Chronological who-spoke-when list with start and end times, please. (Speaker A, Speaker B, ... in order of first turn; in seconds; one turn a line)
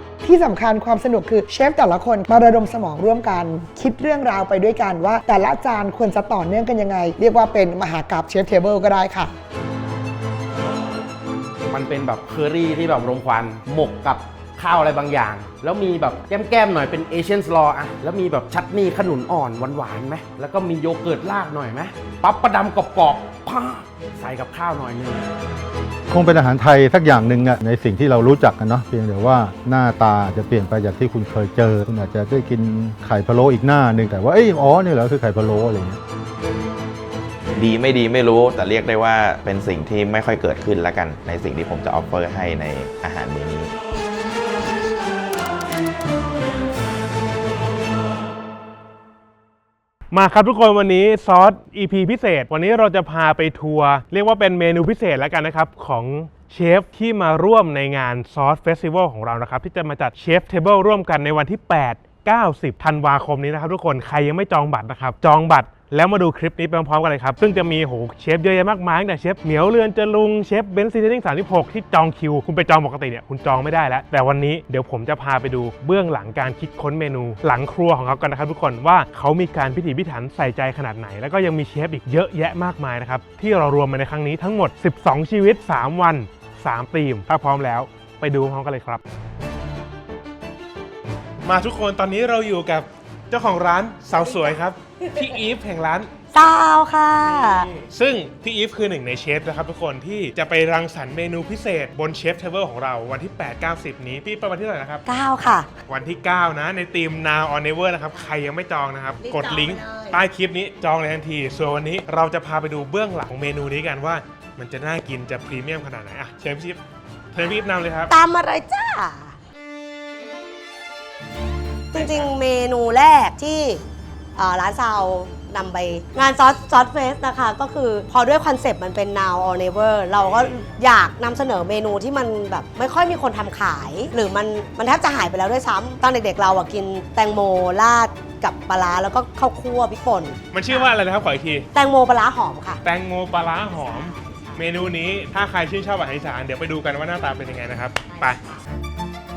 Speaker A: 0.2-9.3
Speaker B: 11.7-25.2
Speaker C: 26.1-36.0
Speaker D: 37.5-43.7
Speaker E: 50.1-89.0
Speaker E: 91.4-96.1
Speaker F: 96.3-97.7
Speaker E: 97.7-105.0
Speaker F: 105.1-105.7
Speaker E: 105.9-116.8
Speaker F: 109.2-110.1
Speaker E: 117.3-118.1
Speaker F: 118.1-119.3
Speaker F: 121.9-123.8
Speaker E: 121.9-122.3
Speaker F: 124.3-140.9
Speaker E: 130.2-130.7
Speaker E: 140.5-141.7
Speaker F: 141.7-142.8
Speaker E: 142.8-148.4
Speaker F: 144.2-144.6